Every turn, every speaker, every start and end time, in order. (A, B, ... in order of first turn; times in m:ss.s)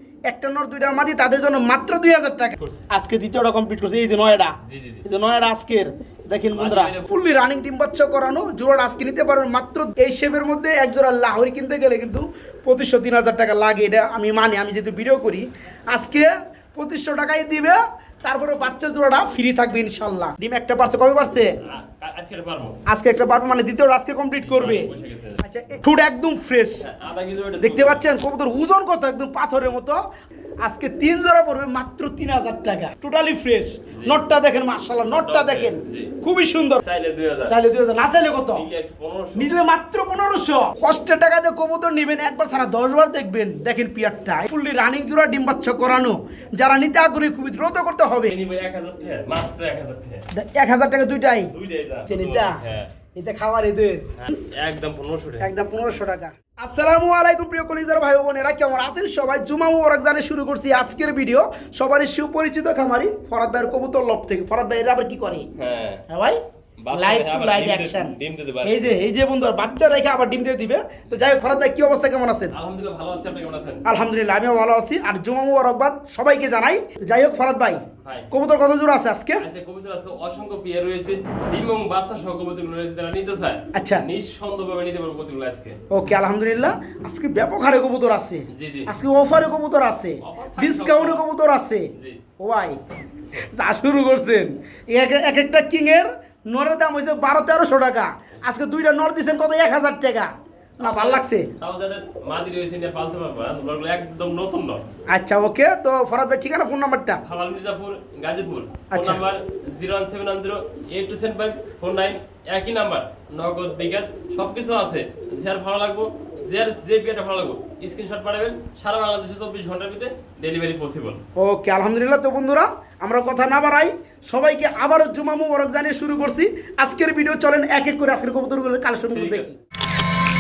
0:00.3-0:21.6 A
0:02.6-0:02.9 B
0:04.6-0:05.1 B
0:06.5-0:07.2 B
0:21.6-0:22.8 B
0:22.9-0:24.9 A
0:24.4-0:25.4 B
0:25.4-0:26.8 A
0:26.8-0:28.0 B
0:27.6-0:30.0 A
0:30.6-0:36.8 A
0:33.9-0:34.2 B
0:35.1-0:36.1 B
0:36.8-0:37.6 B
0:37.5-0:38.6 A
0:38.5-0:39.6 B
0:39.4-0:48.4 A
0:48.2-0:50.3 B
0:50.3-0:51.5 A
0:51.5-0:52.9 B
0:52.1-0:52.6 A
0:53.2-0:54.5 A
0:54.2-0:55.5 B
0:55.4-1:05.5 A
1:05.6-1:06.1 B
1:06.1-1:06.4 A
1:06.8-1:09.0 B
1:06.9-1:12.6 A
1:12.5-1:13.8 B
1:13.8-1:19.4 A
1:18.0-1:18.3 B
1:19.4-1:25.9 B
1:23.7-1:24.1 A
1:25.9-1:32.8 A
1:28.5-1:28.9 B
1:30.2-1:31.2 B
1:32.0-1:32.2 B
1:33.4-1:41.5 A
1:40.8-1:44.8 B
1:45.1-1:47.2 A
1:47.2-2:01.2 B
1:48.9-1:49.2 A
2:01.4-2:09.6 A
2:09.1-2:09.5 B